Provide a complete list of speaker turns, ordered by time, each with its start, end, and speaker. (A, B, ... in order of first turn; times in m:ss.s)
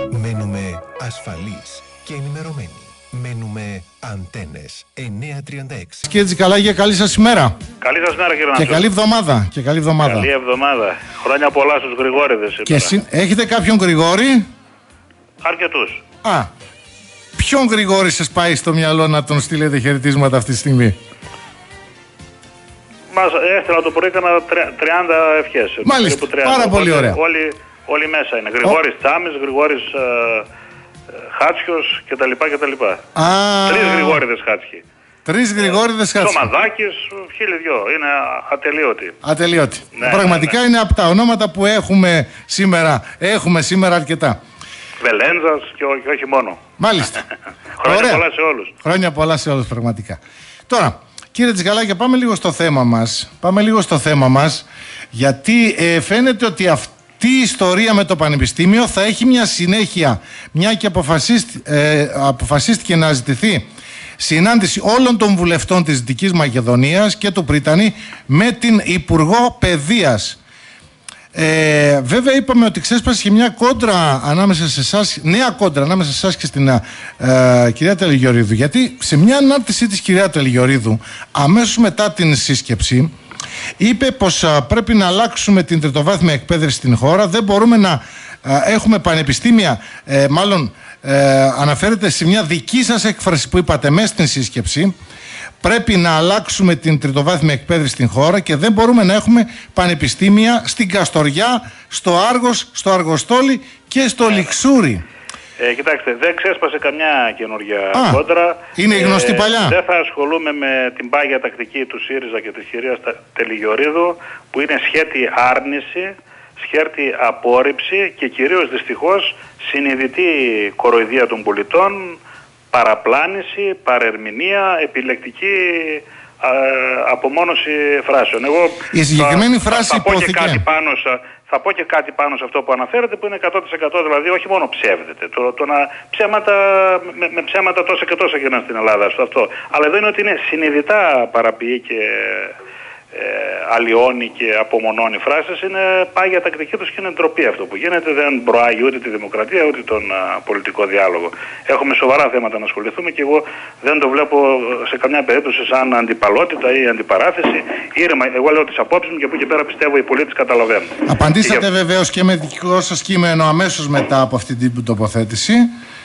0:00.1-0:06.1 A
0:06.1-0:07.6 B
0:07.8-0:08.9 C
0:08.6-0:10.3 B
0:10.0-0:12.9 C
0:12.7-0:14.4 B
0:15.4-0:16.0 C
0:16.2-0:16.5 B
0:17.4-0:21.0 B
0:23.1-0:30.5 C
0:25.8-0:27.2 B
0:31.2-0:33.0 C
0:33.2-0:34.2 B
0:33.7-0:34.8 C
0:35.3-0:36.5 B
0:35.6-0:39.2 C
0:39.2-0:44.4 B
0:40.0-0:40.6 C
0:45.0-0:46.6 C
0:46.8-0:47.2 B
0:47.8-0:48.7 C
0:47.8-0:48.2 B
0:48.8-1:03.7 B
1:04.2-1:10.4 B
1:11.3-1:23.1 B
1:23.8-1:34.9 B
1:35.6-1:45.0 B
1:44.3-1:44.6 C
1:45.6-2:02.2 C
1:47.9-1:48.2 B
1:48.8-1:49.8 B
2:02.7-2:22.5 C
2:08.9-2:10.6 B
2:23.1-2:41.6 C
2:41.1-2:45.7 B